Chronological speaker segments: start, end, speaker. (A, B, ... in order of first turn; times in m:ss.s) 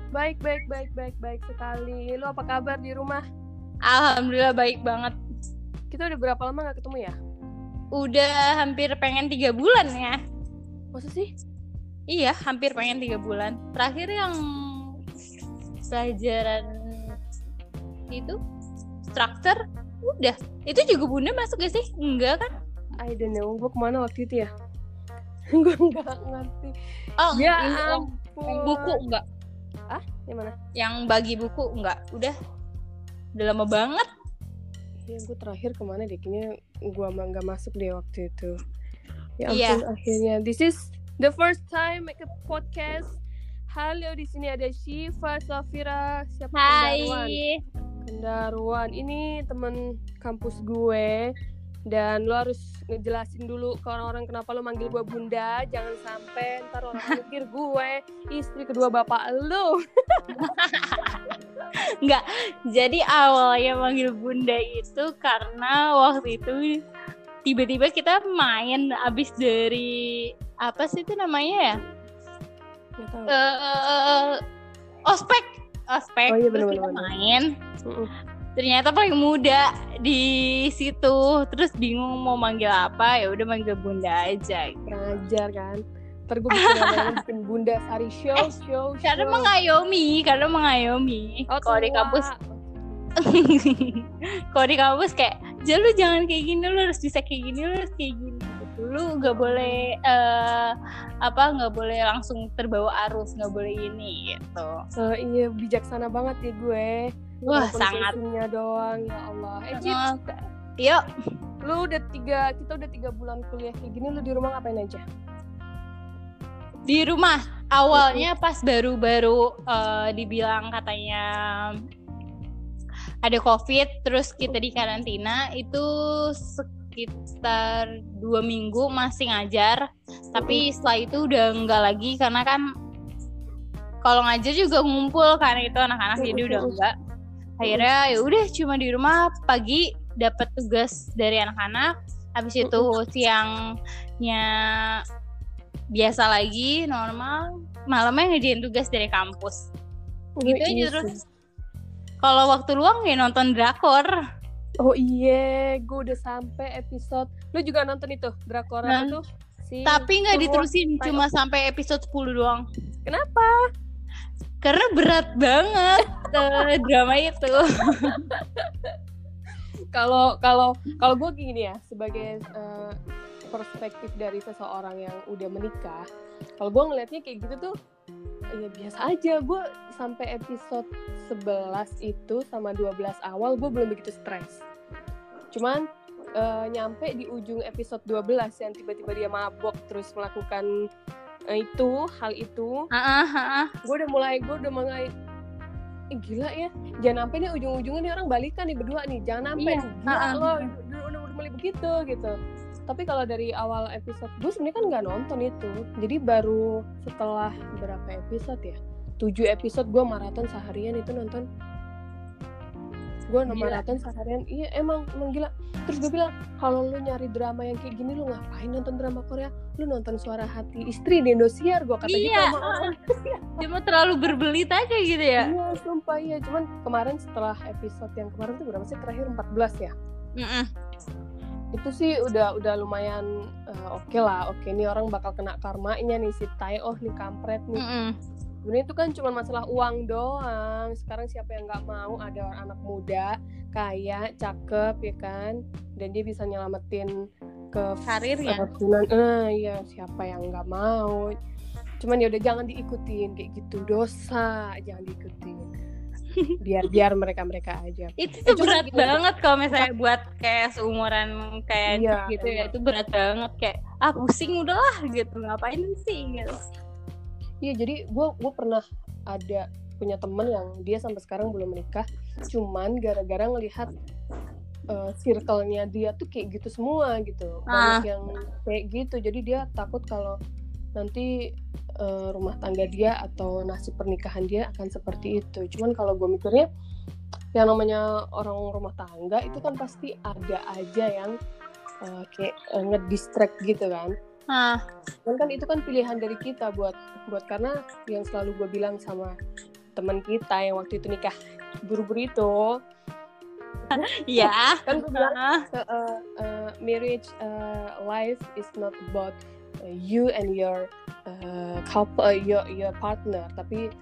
0:00.2-0:03.2 A
0:03.9-0:05.2 B
0:05.9-0:07.2 A
0:08.0-0:10.2 B
0:10.9-0:11.3 A
0:12.1-0:14.4 B
0:15.9-0:17.2 B
0:18.1-0:18.4 B
0:19.1-0:22.5 B
0:23.0-0:24.5 A
0:25.6-0:26.7 A
0:27.2-0:29.2 B
0:27.3-0:29.0 A
0:29.9-0:30.5 A
0:30.8-0:32.4 B
0:33.4-0:34.1 B
0:35.1-0:38.5 A
0:39.4-0:43.2 A
0:39.5-0:39.8 B
0:43.8-0:47.4 A
0:46.6-0:47.6 B
0:48.0-0:51.3 A
0:51.9-0:59.8 A
1:00.4-1:01.2 B
1:02.0-1:06.8 B
1:07.5-1:09.9 B
1:10.6-1:11.8 B
1:13.0-1:13.3 A
1:13.3-1:14.4 B
1:15.1-1:17.4 B
1:16.3-1:17.1 A
1:18.6-1:24.8 B
1:24.9-1:29.5 A
1:26.6-1:27.1 B
1:29.0-1:32.2 B
1:31.5-1:32.6 A
1:33.2-1:40.7 B
1:39.2-1:39.8 A
1:41.3-1:44.7 B
1:45.0-1:50.0 A
1:47.5-1:48.2 B
1:49.7-1:51.0 B
1:51.7-1:55.0 A
1:56.9-2:01.7 B
1:57.9-1:58.3 A
2:03.2-2:09.8 B
2:10.3-2:12.6 B
2:10.4-2:10.6 A
2:14.0-2:16.9 B
2:16.2-2:16.8 A
2:17.6-2:23.5 B
2:22.6-2:22.9 A
2:26.0-2:29.6 B
2:30.4-2:31.2 A
2:30.4-2:31.1 B
2:32.2-2:34.1 B
2:34.8-2:41.2 A
2:38.9-2:39.2 B
2:39.9-2:42.6 B
2:43.1-2:43.6 A
2:44.6-2:48.2 B
2:46.1-2:46.7 A
2:48.1-2:48.7 A
2:50.0-2:52.9 A
2:53.5-2:56.1 A
2:56.6-2:57.7 A
2:58.6-3:04.6 A
3:05.5-3:05.8 A
3:06.4-3:10.7 A
3:11.5-3:12.8 A
3:12.9-3:13.7 B
3:13.8-3:15.0 A
3:16.2-3:22.3 A
3:19.6-3:20.7 B
3:22.9-3:31.4 A
3:33.3-3:42.9 A
3:33.5-3:33.8 B
3:42.1-3:42.9 B
3:43.6-3:45.5 B
3:45.4-3:49.9 A
3:50.4-3:50.7 B
3:51.7-3:57.8 A
3:57.8-3:58.1 B
3:58.7-4:07.1 A
4:07.7-4:11.2 A
4:08.0-4:08.7 B
4:12.0-4:15.6 A
4:16.6-4:19.2 A
4:18.2-4:26.5 B
4:21.9-4:22.7 A
4:27.6-4:33.9 A
4:34.9-4:40.4 A
4:37.7-4:38.0 B
4:41.0-4:41.3 A
4:42.0-4:46.7 A
4:47.6-4:51.3 A
4:52.1-4:54.1 A
4:54.5-4:54.8 B
4:55.3-4:59.3 A
5:00.0-5:01.3 A
5:01.9-5:02.7 A
5:04.0-5:05.6 B
5:04.0-5:09.4 A
5:09.9-5:13.8 A